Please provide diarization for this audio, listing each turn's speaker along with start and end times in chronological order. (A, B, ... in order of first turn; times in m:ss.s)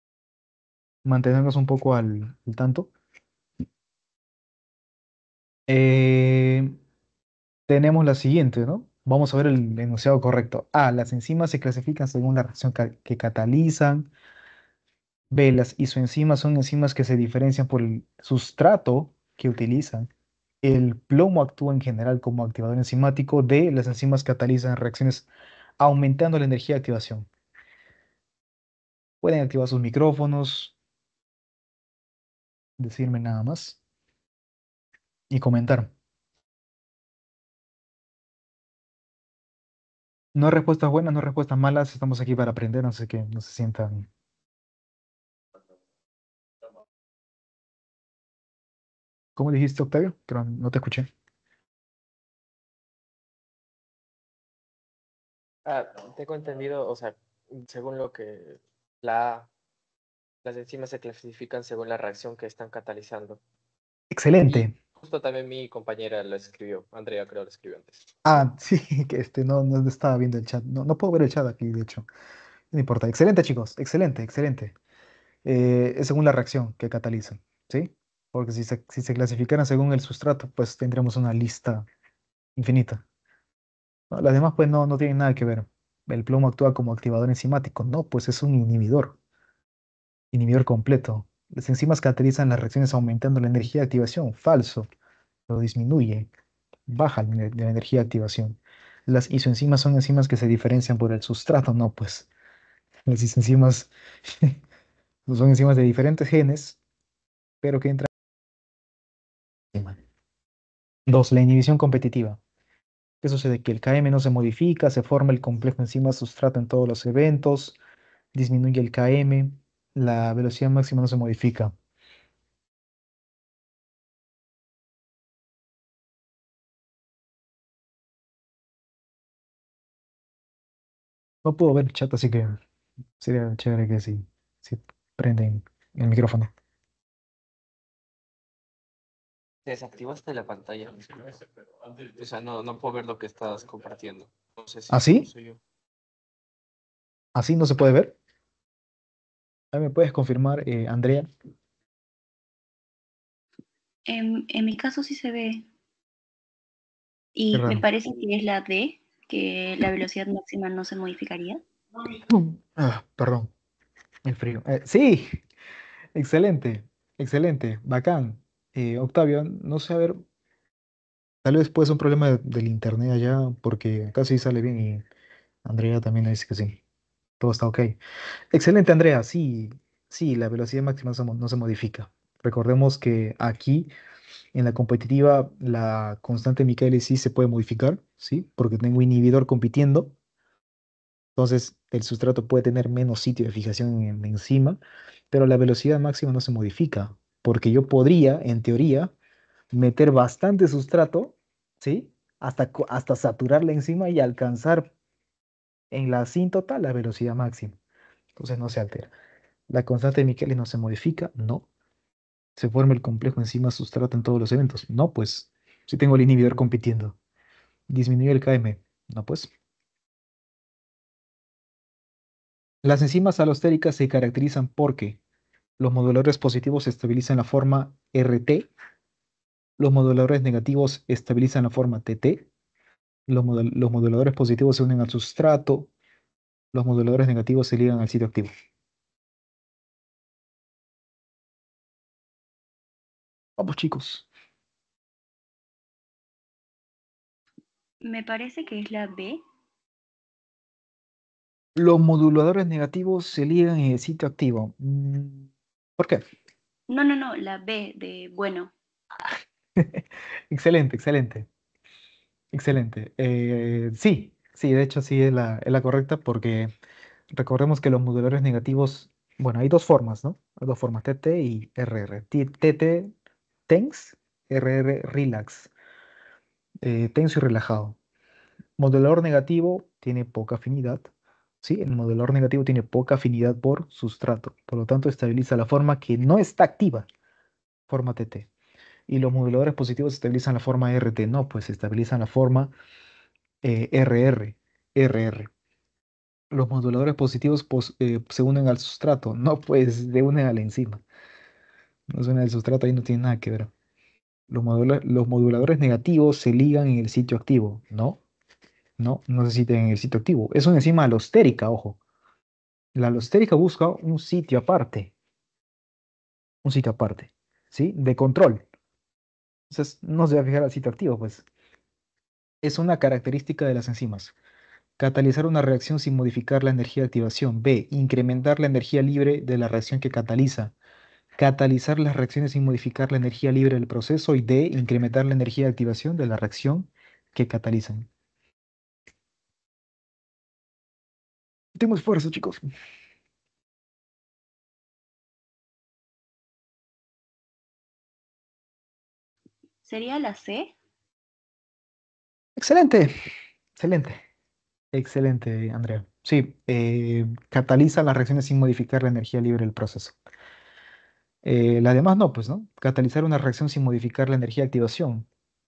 0:01.0-0:02.9 A
0:05.7-0:06.7 A
0:07.7-0:14.1 A
0:15.3-0:20.1 A
0:20.6-0:25.3 A
0:25.8-0:27.3 A
0:29.2-0:30.8 A
0:32.8-0:33.8 A
0:35.3-0:35.9 A
0:40.4-0:44.1 A
0:49.4-0:51.1 A
0:55.6-0:59.5 B
1:00.4-1:03.4 B
1:04.1-1:04.8 A
1:04.9-1:08.1 B
1:08.2-1:12.1 A
1:12.7-1:14.8 A
1:15.4-1:21.9 A
1:22.6-1:23.0 A
1:24.1-1:29.2 A
1:30.3-1:34.9 A
1:35.5-1:36.3 A
1:36.9-1:42.3 A
1:43.1-1:43.9 A
1:45.3-1:46.8 A
1:47.6-1:48.1 A
1:49.7-1:50.0 A
1:51.1-1:52.4 A
1:53.2-1:57.8 A
1:58.3-2:01.7 A
2:11.4-2:12.6 A
2:13.2-2:16.5 A
2:19.6-2:25.6 B
2:24.9-2:25.3 A
2:27.4-2:28.2 A
2:29.7-2:31.3 A
2:34.1-2:35.7 C
2:37.4-2:41.6 C
2:37.5-2:37.9 A
2:42.2-2:43.5 A
2:44.3-2:45.4 A
2:46.2-2:50.2 A
2:51.4-2:55.0 A
2:55.6-2:56.8 A
2:57.4-2:58.0 A
2:58.5-3:03.9 A
3:04.5-3:10.2 A
3:11.4-3:14.8 A
3:15.3-3:19.1 A
3:19.7-3:24.9 A
3:25.9-3:27.8 A
3:28.4-3:29.1 A
3:29.7-3:31.7 A
3:32.6-3:37.2 A
3:37.9-3:39.5 A
3:42.8-3:45.2 A
3:45.8-3:48.7 A
3:49.8-3:52.5 A
3:53.3-3:55.9 A
3:56.7-3:58.5 A
4:03.6-4:04.3 A
4:08.0-4:09.4 C
4:11.8-4:16.2 A
4:16.9-4:18.7 C
4:19.8-4:21.5 A
4:22.5-4:26.7 A
4:27.3-4:33.1 A
4:33.7-4:35.7 A
4:36.8-4:38.0 A
4:38.8-4:41.1 A
4:41.6-4:47.1 A
4:47.9-4:48.5 A
4:49.1-4:52.7 A
4:53.6-4:55.5 A
4:56.5-5:01.0 A
5:02.1-5:03.7 A
5:04.5-5:08.2 A
5:09.0-5:12.0 A
5:13.0-5:15.1 A
5:16.6-5:18.7 A
5:19.7-5:21.4 A
5:22.6-5:24.4 A
5:25.0-5:30.8 A
5:31.4-5:38.1 A
5:41.8-5:42.6 A
5:49.8-5:50.8 C
5:52.6-5:53.1 A
5:53.8-5:54.2 A
5:54.9-6:00.2 A
6:01.4-6:05.3 A